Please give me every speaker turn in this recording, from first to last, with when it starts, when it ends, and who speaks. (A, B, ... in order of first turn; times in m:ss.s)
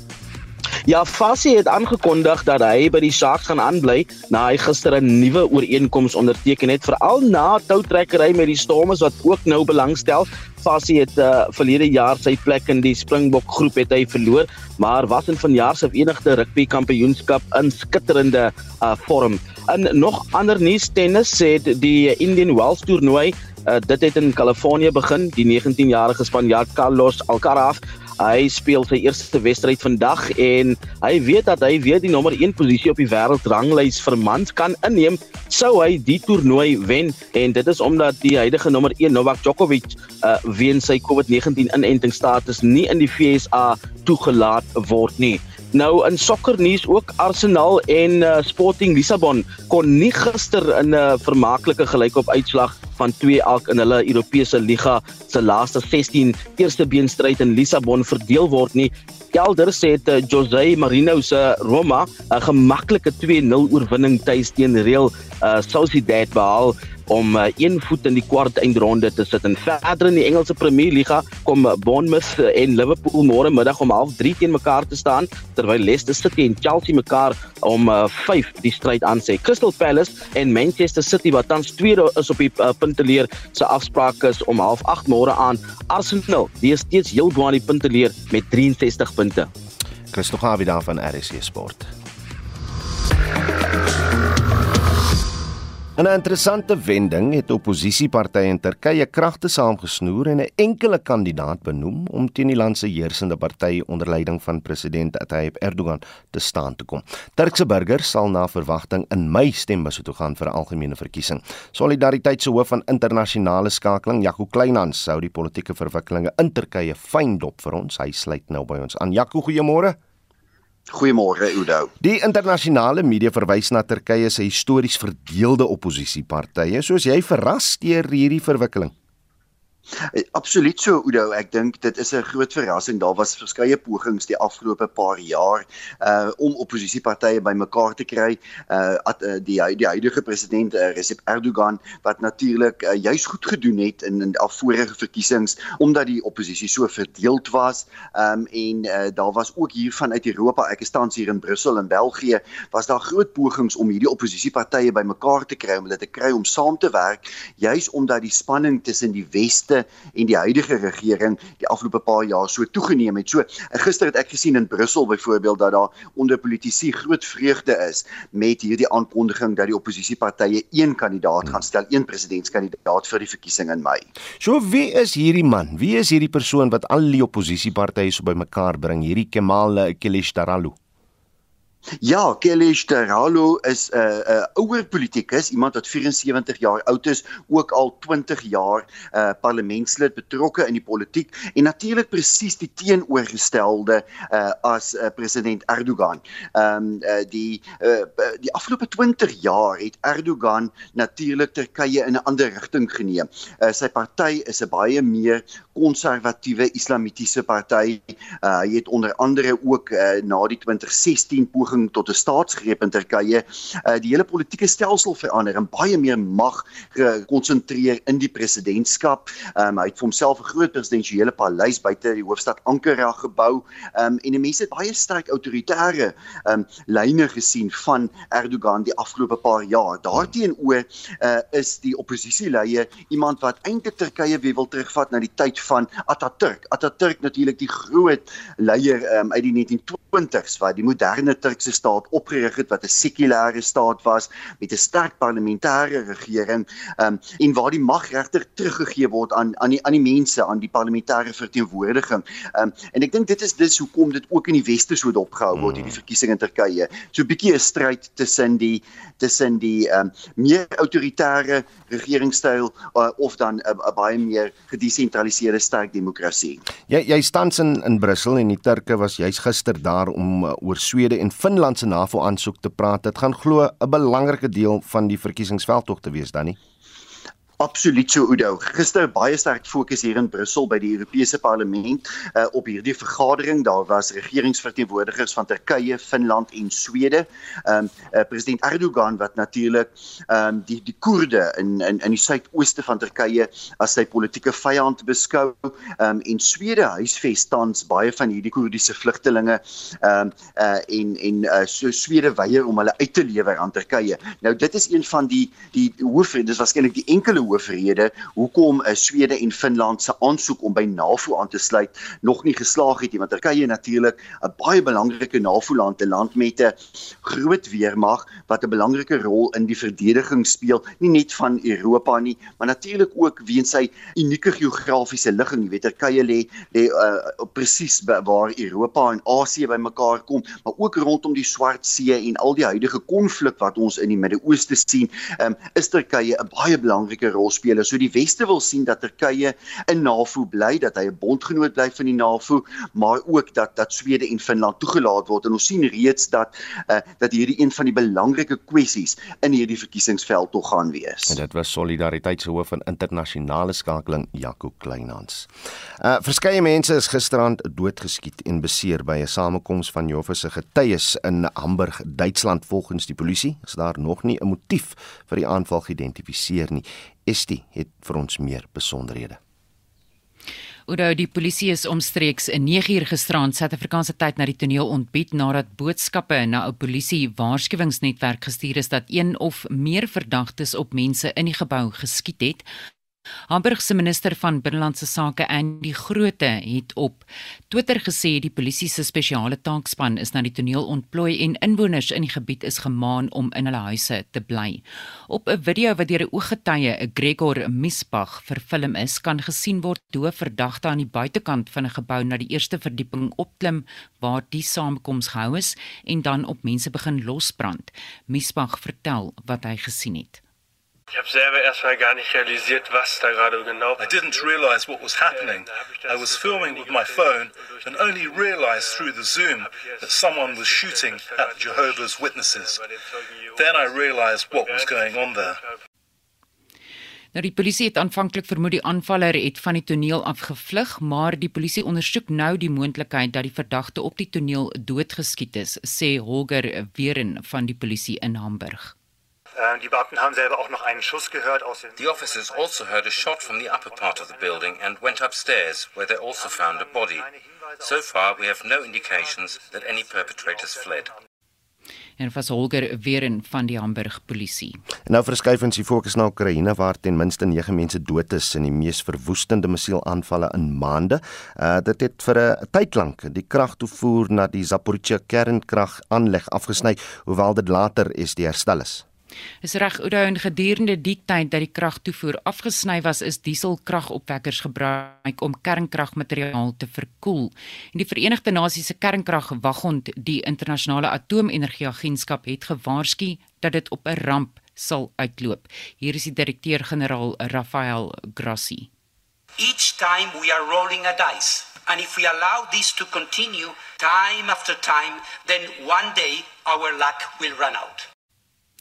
0:00.9-1:29.5 A
1:30.1-1:31.9 B
1:36.0-2:00.0 B
2:00.9-2:01.9 C
2:02.0-2:08.9 B
2:10.1-2:54.0 C
2:54.4-3:00.8 B
3:02.0-4:26.6 C
4:15.6-4:16.0 B
4:26.9-4:36.6 B
4:37.6-5:51.4 C
5:51.3-5:55.5 B
5:56.0-6:09.4 B
6:10.9-6:22.6 D
6:23.5-6:50.4 D
6:51.1-6:54.6 E
6:54.0-7:02.8 F
6:55.2-7:02.1 E
7:02.7-7:05.7 E
7:03.6-7:05.6 F
7:07.3-7:18.9 D
7:22.0-7:31.1 G
7:32.2-7:34.8 D
7:35.1-7:49.0 B
7:49.6-8:08.9 D
8:09.6-8:18.1 H